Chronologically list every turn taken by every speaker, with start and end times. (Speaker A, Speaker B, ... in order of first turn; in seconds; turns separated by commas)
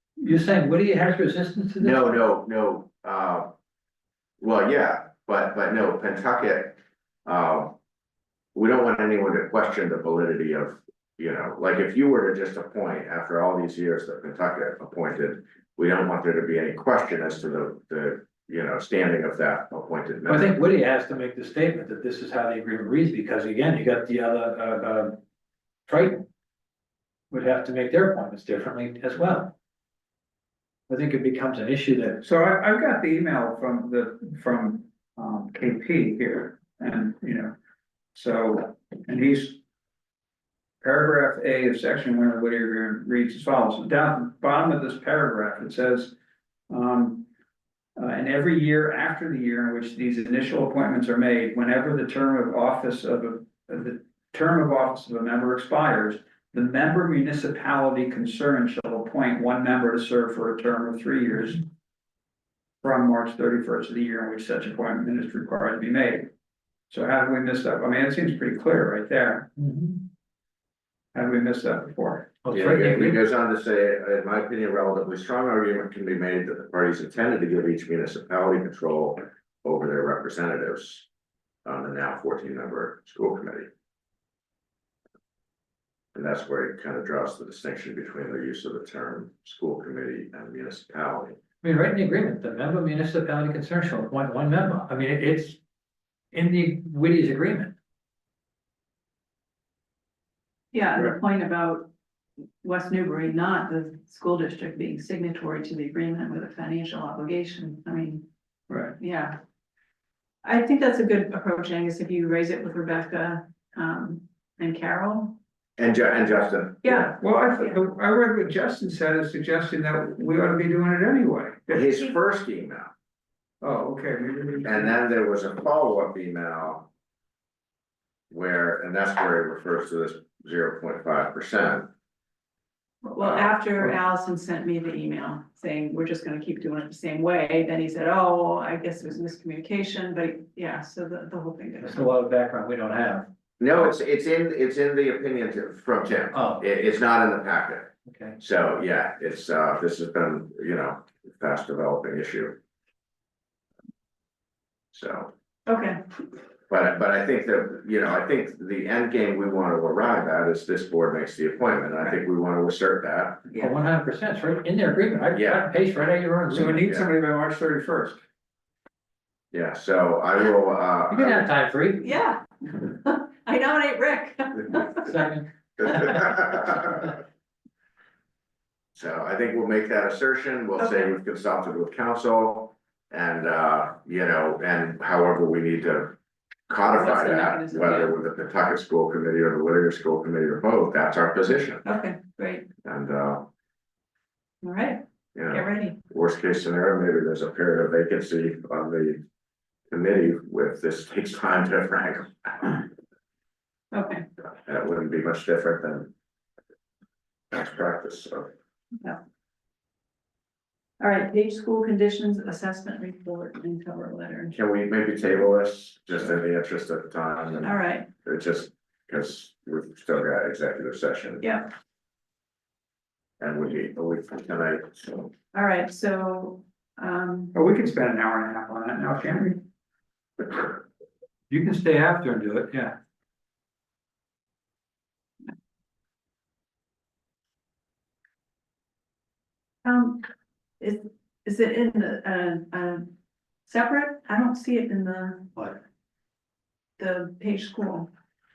Speaker A: 0.2-2.2, Speaker B: 1.8-3.5, Speaker B: 4.4-7.8, Speaker B: 8.6-20.6, Speaker A: 20.3-25.2, Speaker A: 25.9-26.3, Speaker A: 27.3-29.5, Speaker A: 30.9-32.2, Speaker C: 32.2-37.5, Speaker C: 38.1-39.6, Speaker C: 40.8-46.1, Speaker C: 46.7-47.3, Speaker C: 48.0-61.6, Speaker C: 62.8-66.3, Speaker C: 66.9-69.5, Speaker A: 69.6-70.0, Speaker C: 71.1-72.4, Speaker A: 72.4-73.2, Speaker B: 72.5-81.1, Speaker B: 81.7-83.7, Speaker B: 86.2-91.4, Speaker A: 91.6-95.6, Speaker A: 96.3-97.7, Speaker D: 100.7-101.9, Speaker D: 102.6-108.3, Speaker C: 108.7-109.0, Speaker D: 109.0-109.4, Speaker D: 110.4-115.4, Speaker B: 115.8-117.1, Speaker D: 116.8-117.1, Speaker C: 117.1-121.9, Speaker B: 121.7-122.9, Speaker C: 123.6-124.9, Speaker B: 124.7-126.9, Speaker B: 128.3-131.9, Speaker D: 133.0-142.0, Speaker B: 133.2-133.6, Speaker A: 141.8-143.3, Speaker B: 143.6-152.6, Speaker A: 146.3-146.6, Speaker A: 148.1-148.4, Speaker B: 154.9-155.3, Speaker D: 155.7-156.0, Speaker B: 156.7-163.5, Speaker A: 163.5-166.9, Speaker B: 165.3-165.6, Speaker C: 166.5-168.2, Speaker B: 169.5-171.5, Speaker A: 171.1-172.1, Speaker D: 172.0-175.2, Speaker A: 174.9-175.5, Speaker B: 175.8-177.1, Speaker B: 178.9-186.2, Speaker D: 180.8-181.1, Speaker B: 186.7-191.8, Speaker D: 186.9-188.1, Speaker D: 191.8-192.7, Speaker B: 192.8-193.5, Speaker D: 194.6-195.0, Speaker B: 195.3-199.2, Speaker D: 195.5-196.0, Speaker B: 199.9-202.9, Speaker D: 203.9-204.2, Speaker B: 204.7-206.1, Speaker B: 207.5-208.5, Speaker D: 211.0-214.6, Speaker B: 214.5-221.5, Speaker D: 217.6-218.1, Speaker D: 221.4-221.7, Speaker B: 223.4-225.3, Speaker D: 225.5-227.5, Speaker C: 227.5-229.6, Speaker A: 231.5-232.9, Speaker D: 239.8-240.3, Speaker D: 240.8-243.1, Speaker D: 243.7-245.5, Speaker D: 247.0-248.1